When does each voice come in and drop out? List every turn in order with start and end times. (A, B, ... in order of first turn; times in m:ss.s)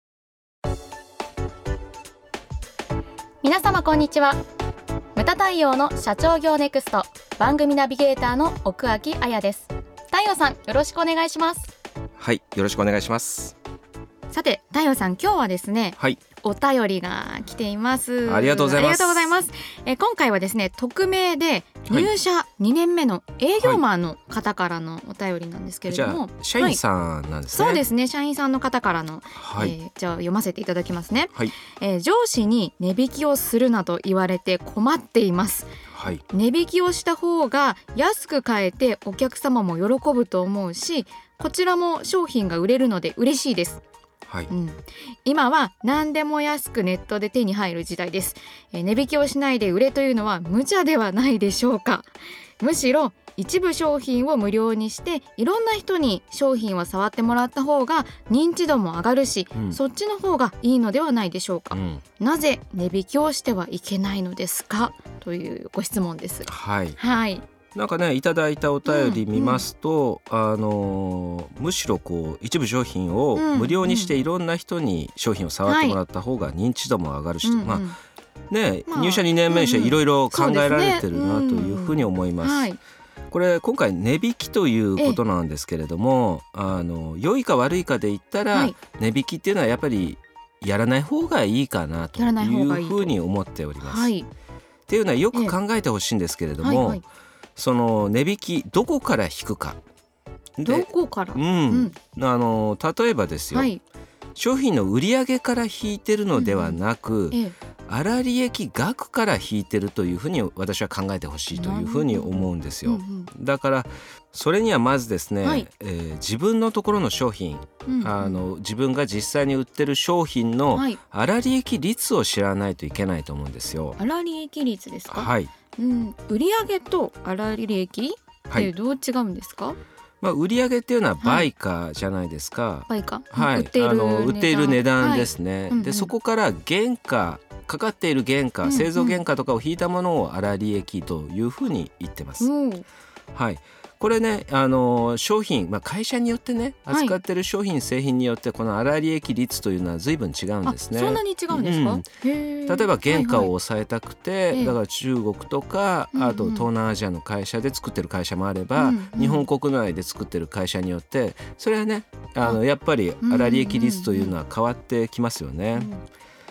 0:03.4-0:04.4 A
0:05.1-0:11.7 A
0:12.2-0:13.5 B
0:14.3-0:26.8 A
0:18.2-0:19.3 B
0:25.9-0:27.8 B
0:27.5-0:35.7 A
0:29.4-0:29.7 B
0:35.9-0:36.2 B
0:36.3-0:43.8 A
0:44.5-1:07.4 A
0:59.5-0:59.8 B
1:01.7-1:02.0 B
1:06.4-1:07.0 B
1:07.7-1:17.9 B
1:08.8-1:09.6 A
1:13.3-1:14.1 A
1:15.6-1:16.0 A
1:17.4-1:18.0 A
1:18.5-1:22.7 B
1:18.9-1:22.8 A
1:23.3-1:34.1 B
1:32.2-1:33.1 A
1:33.8-1:34.3 A
1:34.9-1:37.0 B
1:36.6-1:37.0 A
1:37.6-1:39.8 B
1:40.6-1:43.7 B
1:40.6-1:41.9 A
1:43.5-1:43.8 A
1:44.4-2:04.0 B
1:46.3-1:46.8 A
1:51.5-1:53.3 A
1:57.8-1:58.4 A
2:00.7-2:01.0 A
2:04.0-2:09.8 A
2:05.1-2:05.5 B
2:10.2-2:22.5 B
2:11.2-2:11.5 A
2:12.9-2:16.1 A
2:18.6-2:19.2 A
2:22.4-2:22.8 A
2:23.3-2:32.1 B
2:30.6-2:33.5 A
2:32.7-2:45.9 B
2:36.1-2:36.7 A
2:38.8-2:39.5 A
2:43.2-2:44.3 A
2:45.8-2:46.0 A